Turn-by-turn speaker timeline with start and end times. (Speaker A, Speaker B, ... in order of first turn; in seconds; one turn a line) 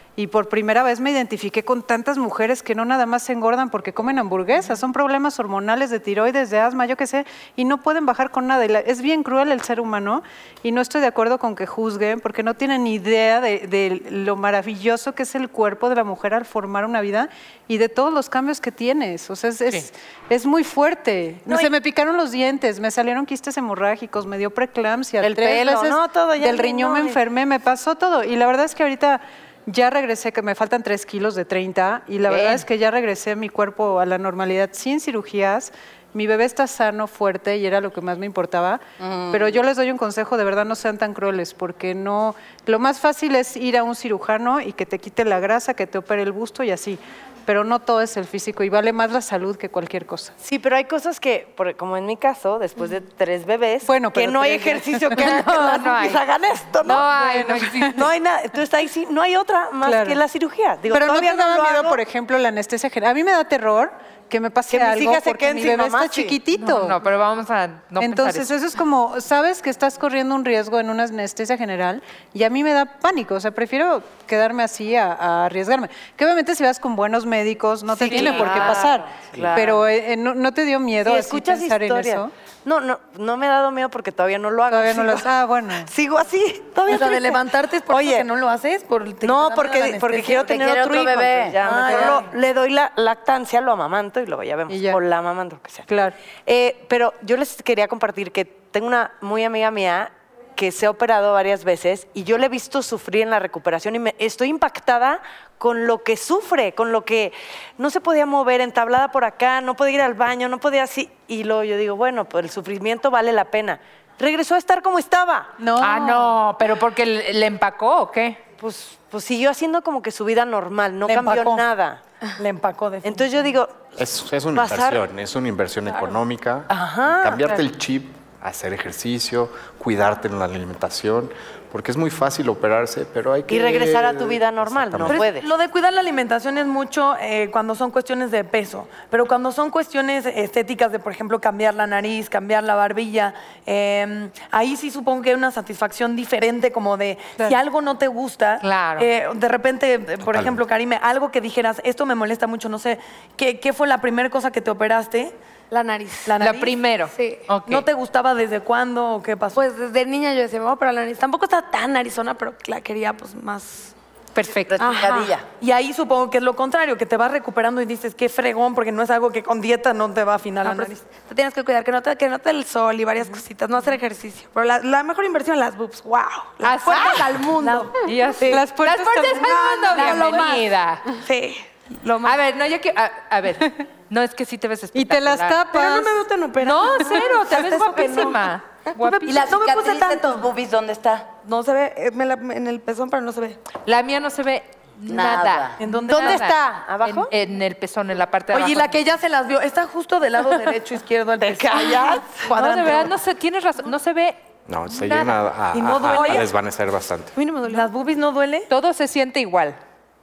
Speaker A: 0.2-50.3
Speaker B: 25.2-27.2
Speaker C: 32.3-32.6
Speaker C: 39.0-39.5
Speaker B: 50.4-57.1
Speaker A: 53.8-55.4
Speaker D: 55.2-56.2
Speaker D: 56.8-58.1
Speaker A: 57.0-58.0
Speaker B: 57.9-62.0
Speaker A: 59.8-60.2
Speaker A: 60.9-67.0
Speaker B: 64.7-66.4
Speaker D: 66.6-68.5
Speaker A: 68.0-82.3
Speaker D: 78.0-78.8
Speaker B: 78.0-79.8
Speaker B: 81.0-85.3
Speaker A: 84.7-85.9
Speaker B: 85.8-88.2
Speaker E: 86.8-90.5
Speaker B: 89.2-95.8
Speaker C: 90.3-91.6
Speaker E: 91.6-92.3
Speaker A: 91.8-92.1
Speaker A: 94.7-95.0
Speaker A: 95.9-96.1
Speaker B: 96.5-115.5
Speaker A: 115.6-116.3
Speaker D: 115.8-118.4
Speaker B: 118.6-122.0
Speaker E: 121.0-121.7
Speaker E: 122.3-123.3
Speaker B: 123.0-123.9
Speaker F: 123.9-135.2
Speaker B: 124.5-125.0
Speaker B: 126.7-127.5
Speaker B: 133.5-135.4
Speaker E: 135.1-155.3
Speaker D: 148.6-149.1
Speaker F: 150.2-150.6
Speaker G: 155.7-156.3
Speaker E: 156.2-156.8
Speaker D: 156.4-157.8
Speaker G: 157.1-157.4
Speaker E: 157.7-159.6
Speaker G: 159.5-163.9
Speaker D: 164.3-164.9
Speaker C: 164.7-165.4
Speaker G: 164.8-165.3
Speaker E: 165.5-171.1
Speaker G: 170.6-177.9
Speaker D: 176.6-177.3
Speaker E: 177.5-180.5
Speaker D: 178.0-181.1
Speaker G: 179.2-180.6
Speaker G: 181.2-182.3
Speaker D: 182.2-185.7
Speaker A: 184.9-186.2
Speaker E: 185.8-188.4
Speaker D: 186.6-189.5
Speaker A: 187.9-188.3
Speaker E: 189.0-190.4
Speaker C: 189.2-191.3
Speaker G: 191.4-193.6
Speaker D: 193.8-199.0
Speaker C: 195.1-195.8
Speaker E: 195.8-196.5
Speaker B: 196.1-197.3
Speaker E: 198.5-203.1
Speaker D: 202.4-204.4
Speaker F: 204.7-207.3
Speaker D: 204.9-205.3
Speaker E: 205.7-206.5
Speaker G: 207.3-207.9
Speaker E: 207.6-208.7
Speaker D: 208.7-209.8